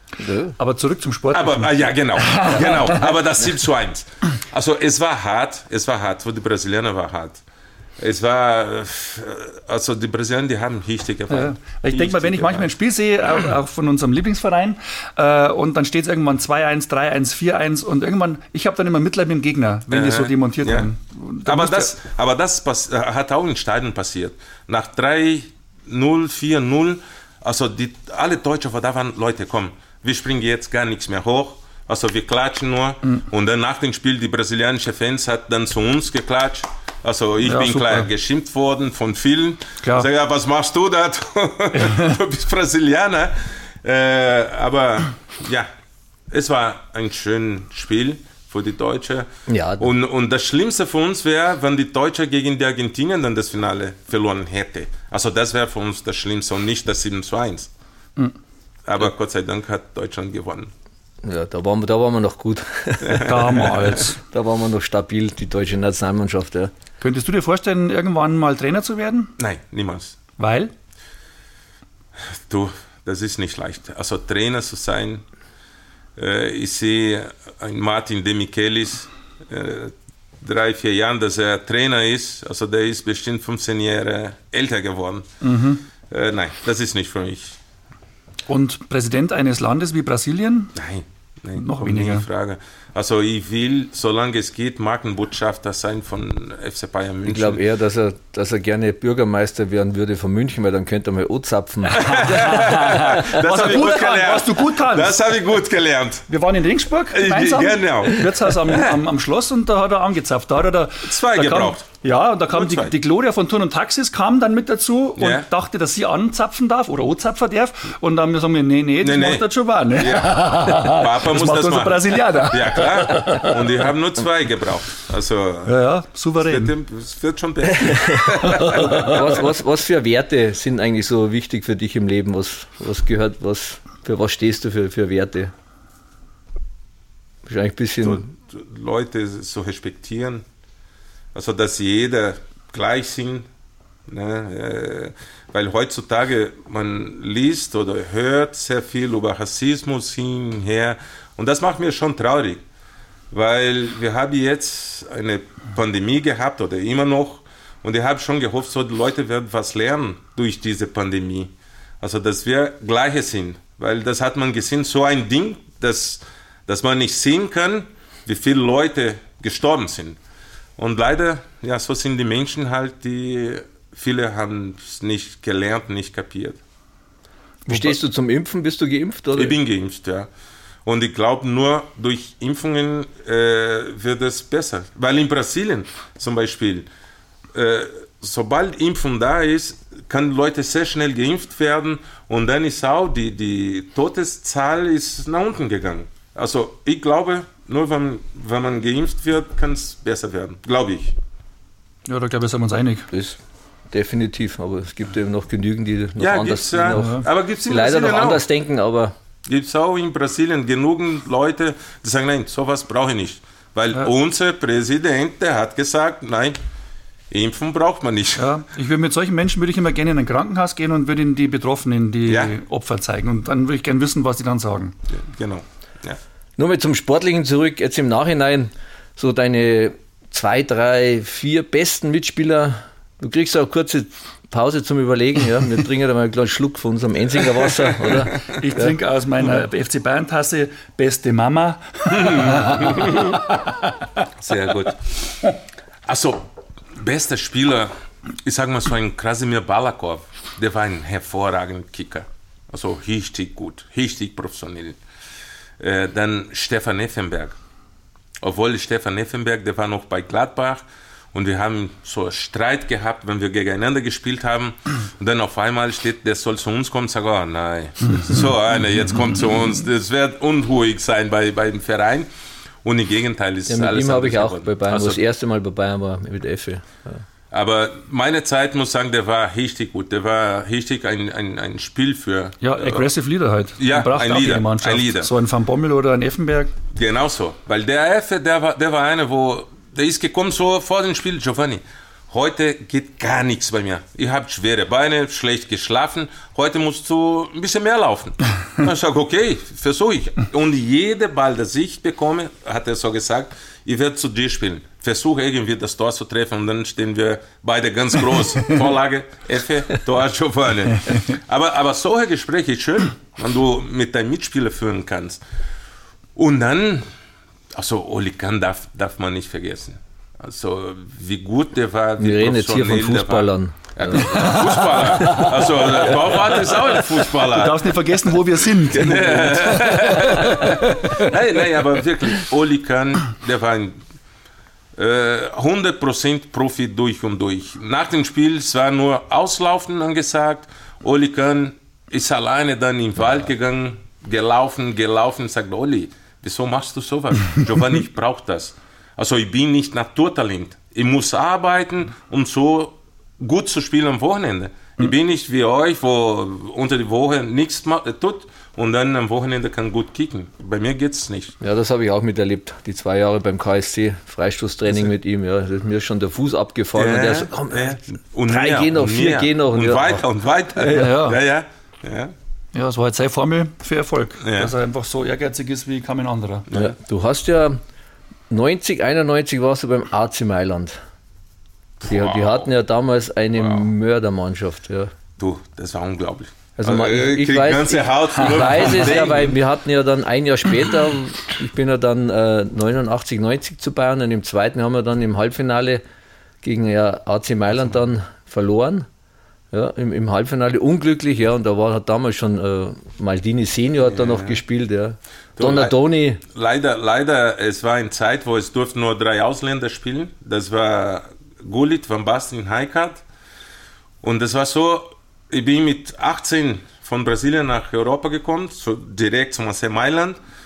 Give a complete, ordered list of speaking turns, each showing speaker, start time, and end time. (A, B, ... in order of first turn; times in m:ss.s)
0:00.2-0:00.6 A
0:00.6-0:03.1 B
0:01.3-0:07.4 C
0:08.0-0:12.7 C
0:11.3-0:21.9 B
0:19.9-0:20.9 C
0:21.4-0:45.7 C
0:37.4-0:38.1 B
0:39.8-0:40.1 B
0:41.8-0:42.2 B
0:46.3-0:49.3 C
0:49.5-0:49.9 A
0:49.8-0:57.7 C
0:58.9-1:00.7 C
1:01.2-1:06.7 A
1:03.0-1:03.9 C
1:03.2-1:04.2 B
1:07.0-1:09.3 B
1:09.4-1:10.2 C
1:10.4-1:10.7 B
1:12.2-1:15.2 C
1:16.2-1:25.3 C
1:25.4-1:25.8 B
1:26.1-1:27.6 C
1:28.5-1:30.7 B
1:30.8-1:37.6 C
1:31.6-1:32.3 B
1:37.2-1:42.8 A
1:41.9-1:46.3 C
1:42.1-1:45.3 B
1:46.3-2:03.6 B
1:47.1-1:49.0 C
1:51.0-1:51.8 C
1:52.5-1:52.9 C
1:55.2-1:55.5 C
1:59.0-2:05.8 C
2:05.7-2:06.7 B
2:06.4-2:09.3 C
2:07.8-2:15.5 A
2:17.5-2:18.3 A
2:18.0-2:20.4 C
2:21.3-2:23.5 C
2:24.1-2:32.6 C
2:33.3-2:50.2 C
2:50.8-2:56.6 C
2:57.7-2:59.6 A
2:59.4-3:00.3 C
3:00.8-3:06.9 C
3:07.5-3:21.2 C
3:22.1-3:23.1 B
3:23.1-3:23.4 A
3:23.9-3:29.1 A
3:26.2-3:28.5 C
3:26.9-3:27.3 B
3:29.5-3:36.6 C
3:37.3-3:38.5 C
3:38.4-3:45.0 B
3:42.3-3:42.5 C
3:45.1-3:46.2 C
3:46.6-3:58.9 A
3:58.4-4:03.6 B
4:02.1-4:03.4 C
4:04.4-4:05.2 C
4:06.1-4:07.9 C
4:08.4-4:15.0 C
4:15.8-4:17.6 C
4:18.4-4:32.3 C
4:32.8-4:35.2 C
4:33.7-4:37.2 A
4:37.5-4:43.1 C
4:42.6-4:46.7 B
4:43.8-4:45.3 C
4:46.9-5:15.4 C
5:16.4-5:17.1 C
5:17.7-5:27.9 C
5:22.2-5:24.5 A
5:25.1-5:25.5 B
5:27.2-5:31.3 B
5:28.9-5:34.0 C
5:35.0-6:01.6 C
6:01.6-6:10.2 A
6:07.0-6:12.3 C
6:10.8-6:11.1 A
6:10.9-6:11.4 B
6:12.7-6:16.7 B
6:14.4-6:14.7 C
6:16.7-6:17.8 A
6:18.5-6:21.0 A
6:22.0-6:22.7 C
6:22.1-6:25.1 A
6:23.6-6:23.8 C
6:25.4-6:29.6 C
6:26.8-6:36.0 A
6:36.6-6:39.1 A
6:39.7-6:46.4 A
6:44.0-6:44.6 C
6:45.6-6:53.2 C
6:54.2-7:00.4 C